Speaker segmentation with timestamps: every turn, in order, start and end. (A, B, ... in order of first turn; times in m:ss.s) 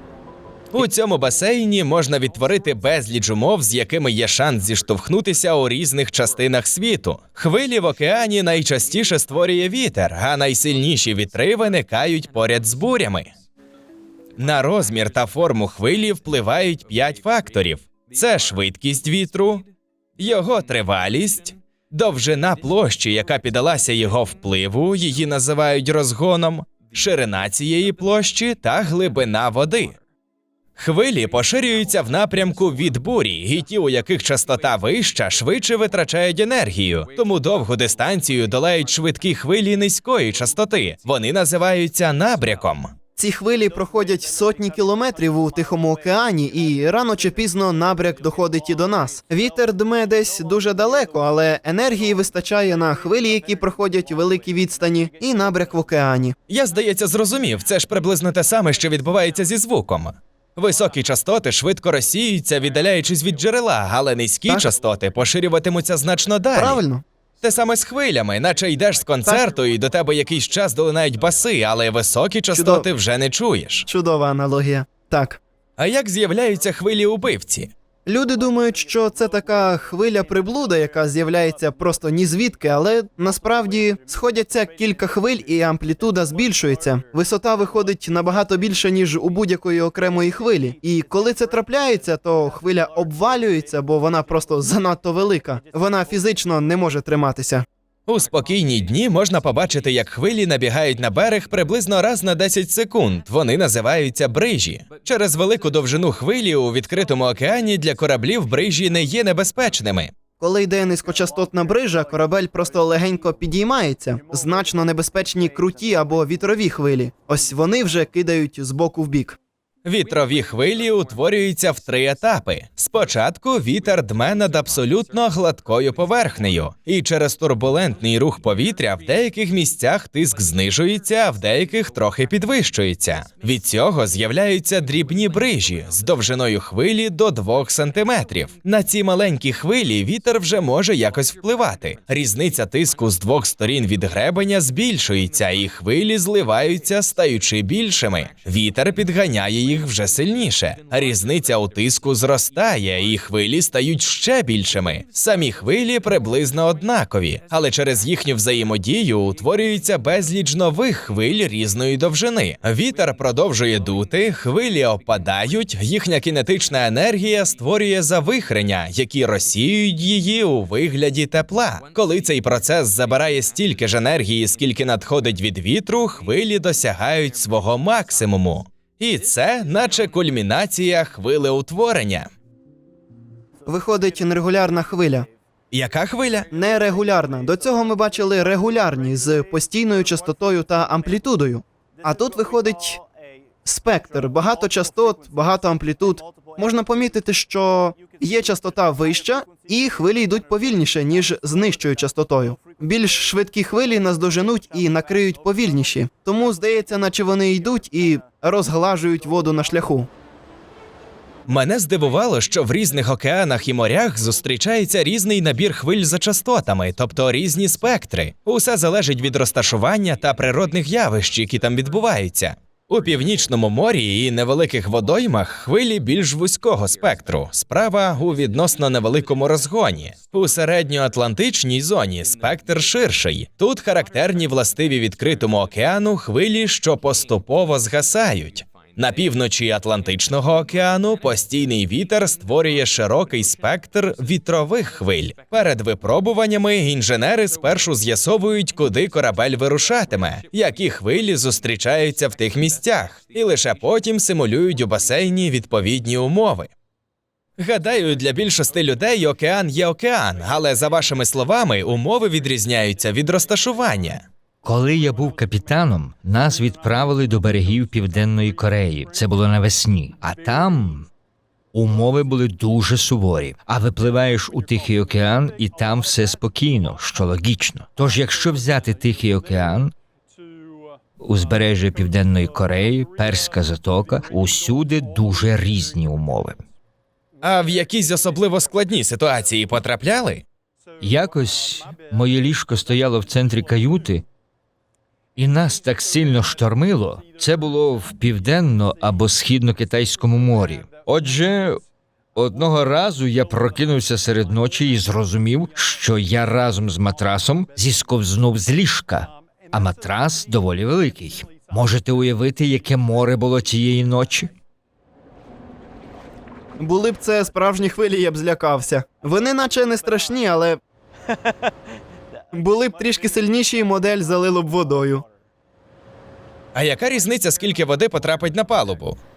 0:00.7-0:13.3 A
0:14.4-0:30.0 A
0:30.8-0:42.9 A
0:43.2-0:56.3 B
0:56.5-1:06.8 A
1:06.5-1:07.0 B
1:07.4-1:13.9 A
1:12.5-1:12.8 B
1:13.9-1:15.4 B
1:15.8-1:17.7 A
1:18.0-1:37.6 B
1:38.1-1:50.1 A
1:50.4-1:59.4 B
1:59.8-3:02.3 A
3:03.6-3:05.3 B
3:05.7-3:06.5 A
3:06.5-3:13.0 B
3:13.6-3:30.1 B
3:31.5-4:16.7 A
4:17.6-4:24.2 A
4:24.6-4:31.1 C
4:31.7-4:39.9 C
4:41.2-4:46.6 C
4:47.4-4:50.4 A
4:51.0-4:54.2 C
4:55.4-5:01.8 C
5:02.4-5:14.5 C
5:16.8-5:20.8 B
5:22.5-5:25.2 B
5:26.7-5:29.2 A